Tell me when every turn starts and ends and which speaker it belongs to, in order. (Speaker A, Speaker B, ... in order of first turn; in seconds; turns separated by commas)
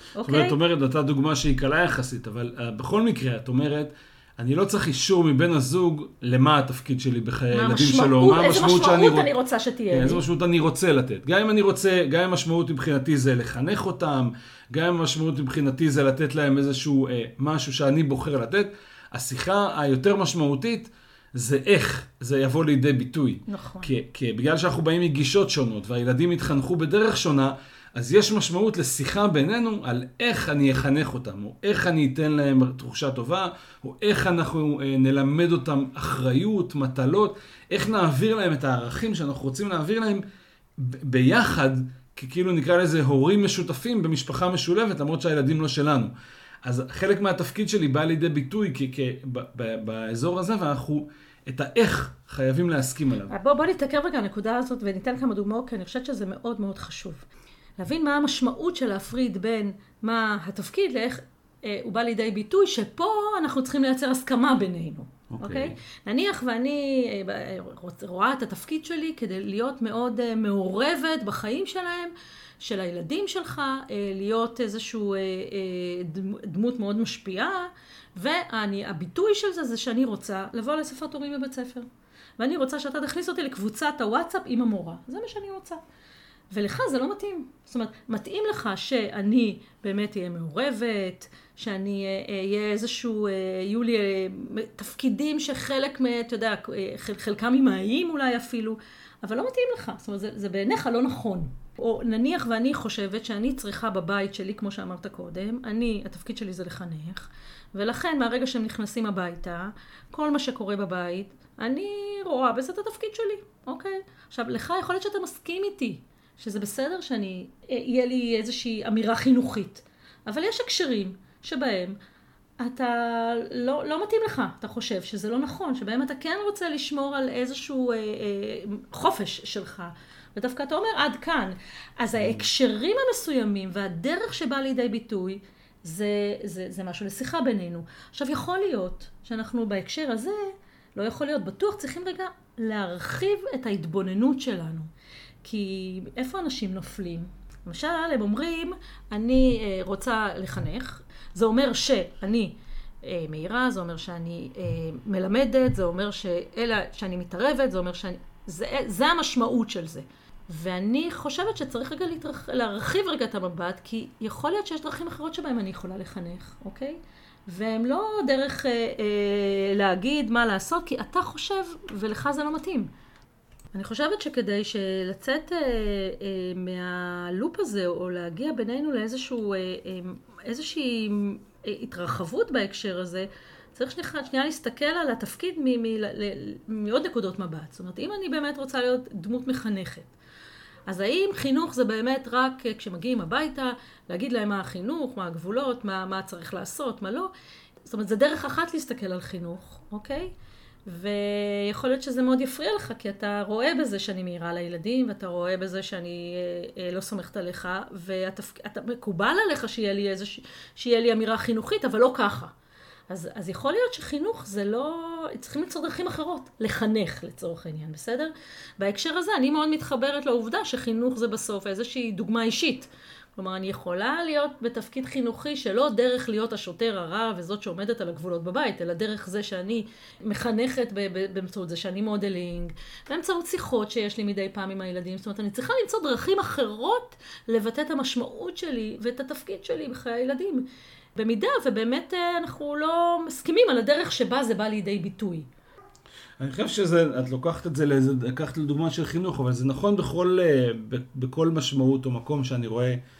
Speaker A: 0.1-0.6, Speaker B: 0.2-9.3, Speaker A: 7.5-10.2, Speaker B: 9.9-40.2, Speaker A: 23.5-23.9, Speaker B: 40.8-53.3, Speaker A: 53.3-57.3, Speaker A: 57.8-81.9, Speaker B: 65.3-65.8, Speaker A: 82.4-85.8, Speaker A: 86.5-122.0, Speaker A: 122.6-144.9, Speaker A: 145.4-172.9, Speaker A: 173.7-190.1, Speaker A: 190.9-197.3, Speaker A: 197.8-200.3, Speaker A: 200.9-212.5, Speaker A: 213.1-245.5, Speaker B: 246.4-253.0